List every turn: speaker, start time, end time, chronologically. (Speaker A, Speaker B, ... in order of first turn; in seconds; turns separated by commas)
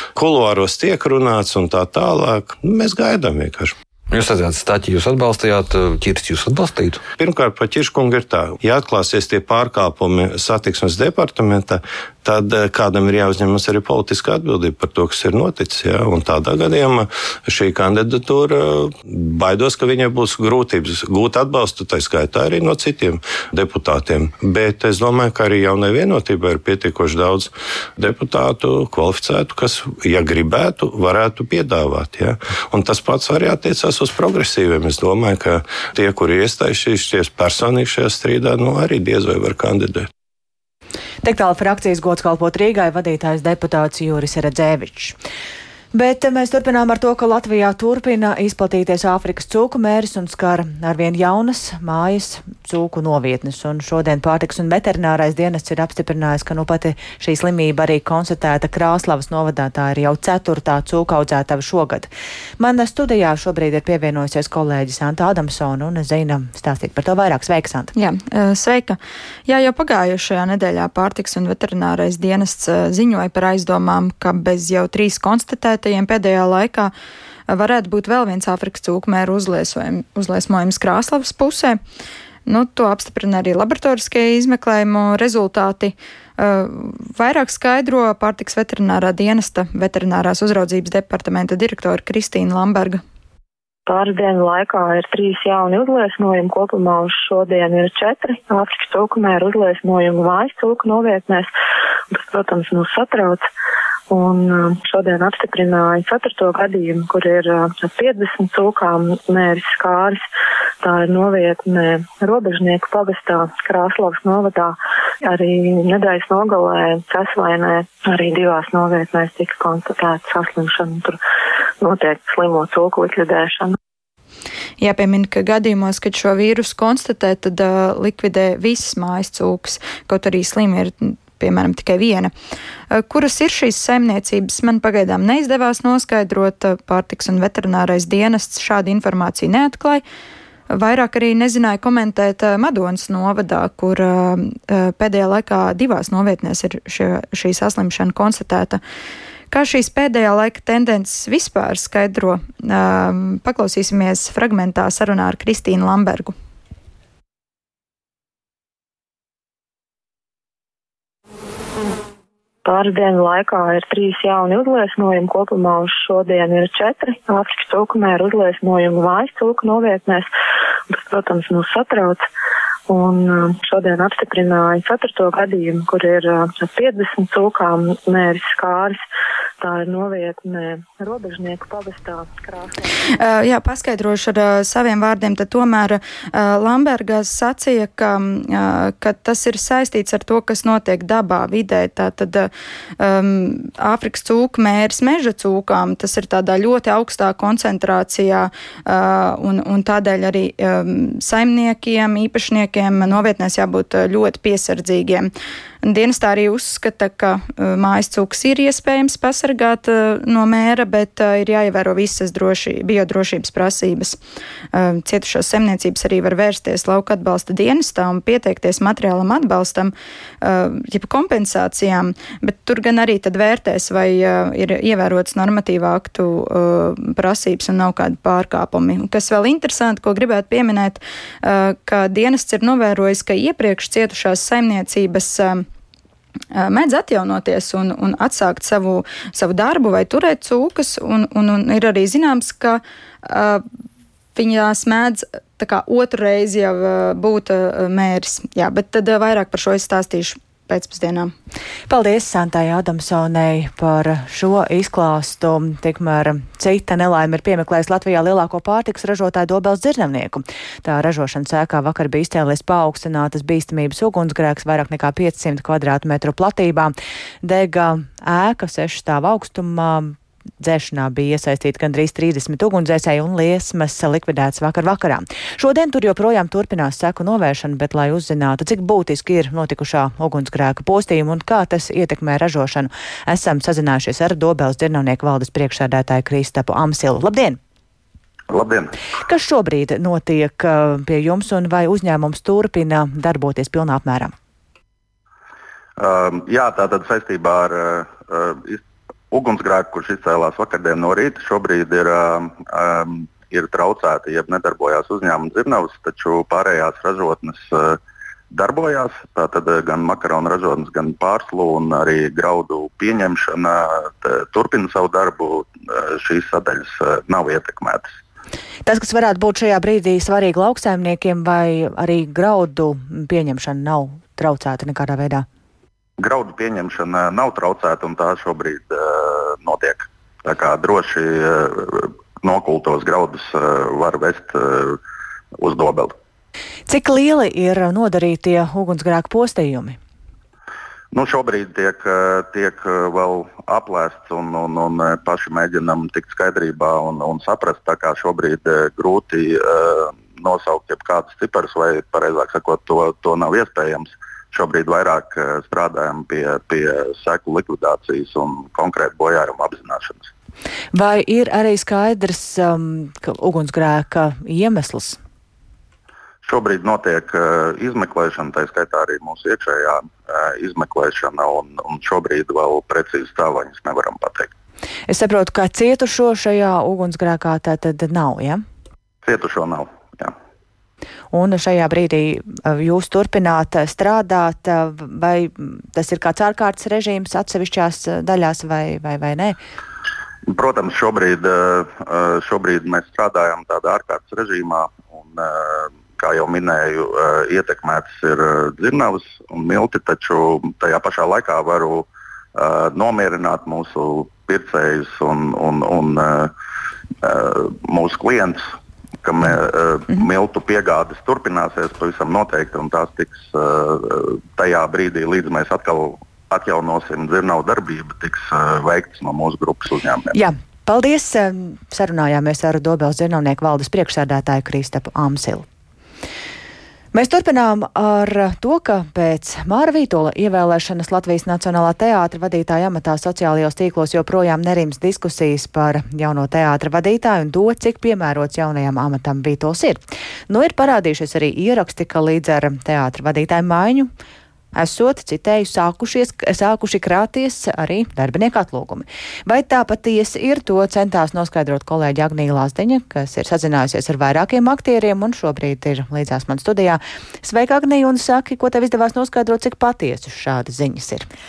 Speaker A: 0.1-3.7, Speaker B: 4.1-7.0, Speaker A: 7.2-40.1, Speaker C: 41.2-45.2, Speaker C: 45.9-67.9, Speaker D: 68.0-76.9, Speaker D: 77.5-81.8, Speaker D: 82.5-93.0, Speaker E: 93.8-101.5, Speaker E: 102.1-103.4, Speaker E: 104.1-110.2, Speaker E: 110.8-121.2, Speaker E: 121.8-123.8, Speaker D: 124.8-132.3, Speaker D: 132.9-140.0, Speaker D: 140.7-148.8, Speaker D: 149.5-156.3, Speaker E: 162.6-170.3, Speaker E: 170.9-172.2, Speaker E: 172.9-179.0, Speaker E: 179.6-182.9, Speaker D: 183.2-205.3, Speaker D: 205.8-214.2, Speaker D: 214.7-235.7, Speaker D: 236.5-243.6, Speaker D: 244.3-251.3, Speaker C: 251.9-287.6, Speaker F: 288.5-288.9, Speaker C: 289.2-294.3, Speaker F: 296.0-308.0, Speaker F: 308.5-318.1, Speaker C: 318.9-325.4, Speaker F: 326.2-335.0, Speaker F: 335.6-336.1, Speaker C: 336.9-340.0, Speaker F: 341.1-360.3, Speaker C: 360.9-365.2, Speaker F: 366.4-374.5, Speaker C: 375.1-378.6, Speaker F: 379.2-380.3, Speaker C: 381.3-389.6, Speaker F: 390.5-406.5, Speaker F: 407.2-408.7, Speaker F: 409.2-420.3, Speaker C: 420.3-425.6, Speaker C: 427.1-444.1, Speaker C: 444.7-461.3